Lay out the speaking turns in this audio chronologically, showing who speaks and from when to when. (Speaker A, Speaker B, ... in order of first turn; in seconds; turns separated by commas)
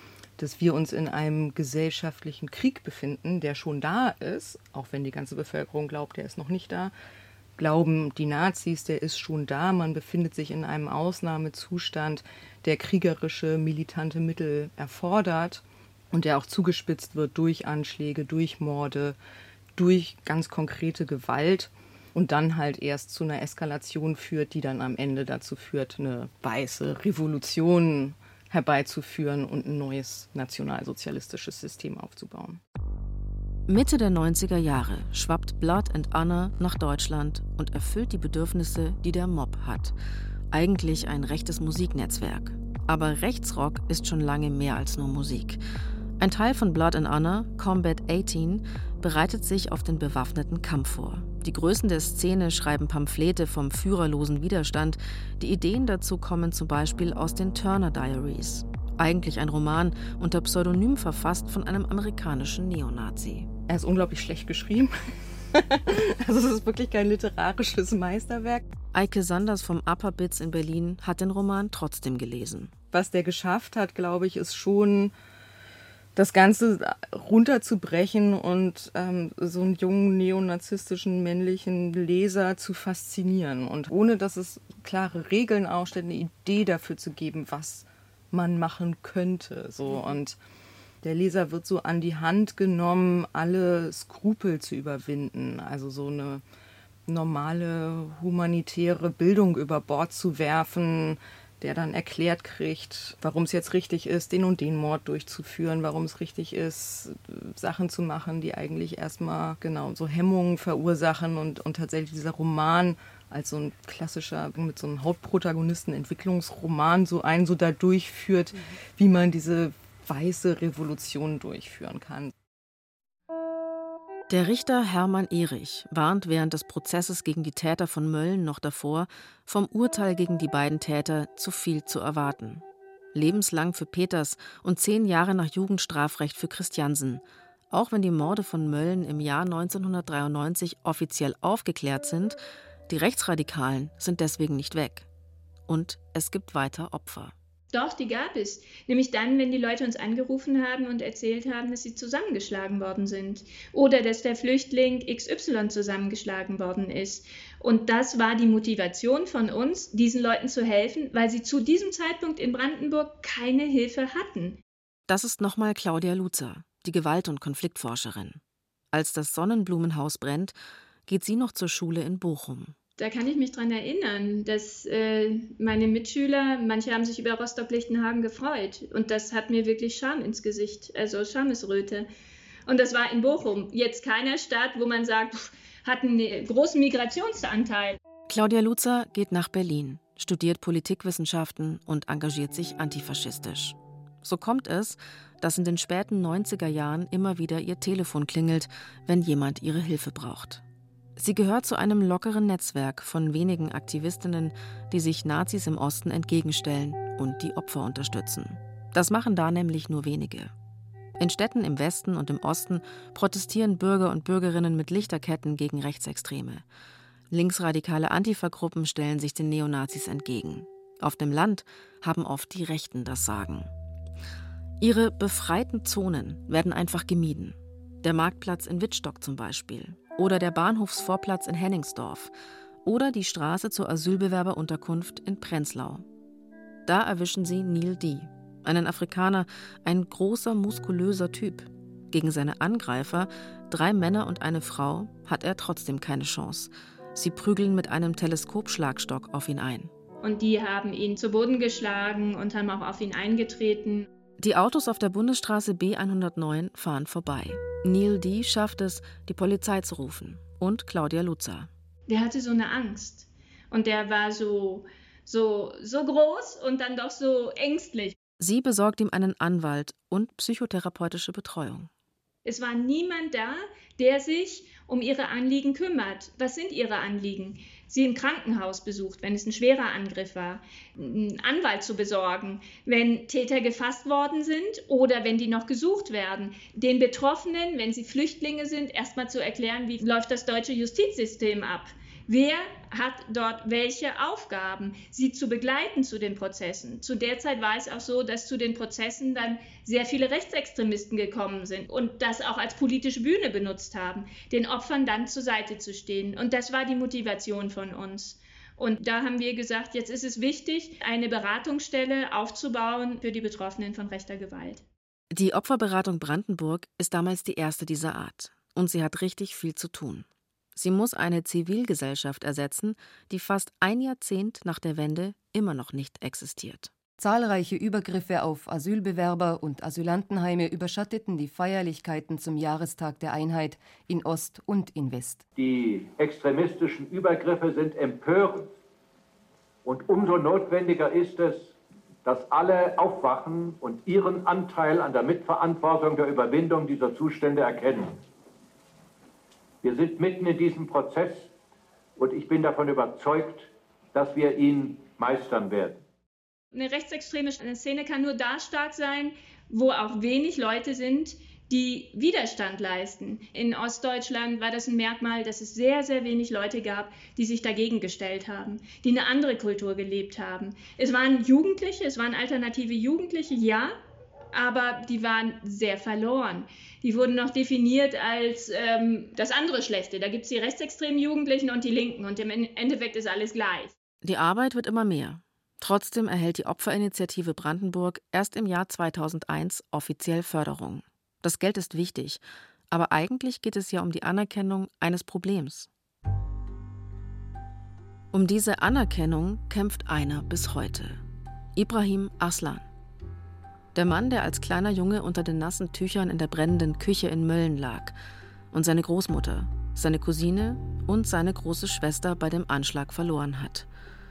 Speaker A: 0.4-6.9, Speaker A: 7.6-19.2, Speaker A: 19.8-32.6, Speaker B: 33.7-40.0, Speaker B: 40.5-45.6, Speaker B: 46.2-63.5, Speaker A: 63.7-64.9, Speaker A: 65.5-68.6, Speaker B: 68.9-72.7, Speaker A: 72.9-75.1, Speaker A: 76.2-90.4, Speaker A: 91.0-96.4, Speaker A: 97.1-122.3, Speaker B: 124.3-142.4, Speaker B: 142.9-145.1, Speaker B: 145.7-147.3, Speaker C: 147.7-164.6, Speaker B: 165.1-168.4, Speaker B: 168.9-170.5, Speaker B: 171.1-172.8, Speaker C: 173.0-182.1, Speaker C: 182.7-188.0, Speaker B: 188.3-200.6, Speaker B: 201.2-210.5, Speaker B: 211.2-216.6, Speaker B: 217.3-223.7, Speaker B: 224.8-232.3, Speaker B: 232.8-236.0, Speaker B: 236.8-249.9, Speaker C: 250.2-254.1, Speaker B: 254.4-261.7, Speaker C: 262.1-268.1, Speaker B: 268.4-271.9, Speaker C: 272.4-314.8, Speaker B: 315.3-326.9, Speaker D: 327.2-335.4, Speaker E: 335.6-338.6, Speaker E: 339.9-341.6, Speaker E: 342.2-348.0, Speaker E: 349.8-351.4, Speaker E: 352.2-353.6, Speaker E: 354.1-355.9, Speaker C: 356.7-373.9, Speaker C: 374.5-383.9, Speaker B: 384.2-395.9, Speaker B: 398.3-401.2, Speaker B: 401.8-402.8, Speaker B: 403.9-408.1, Speaker B: 408.7-413.9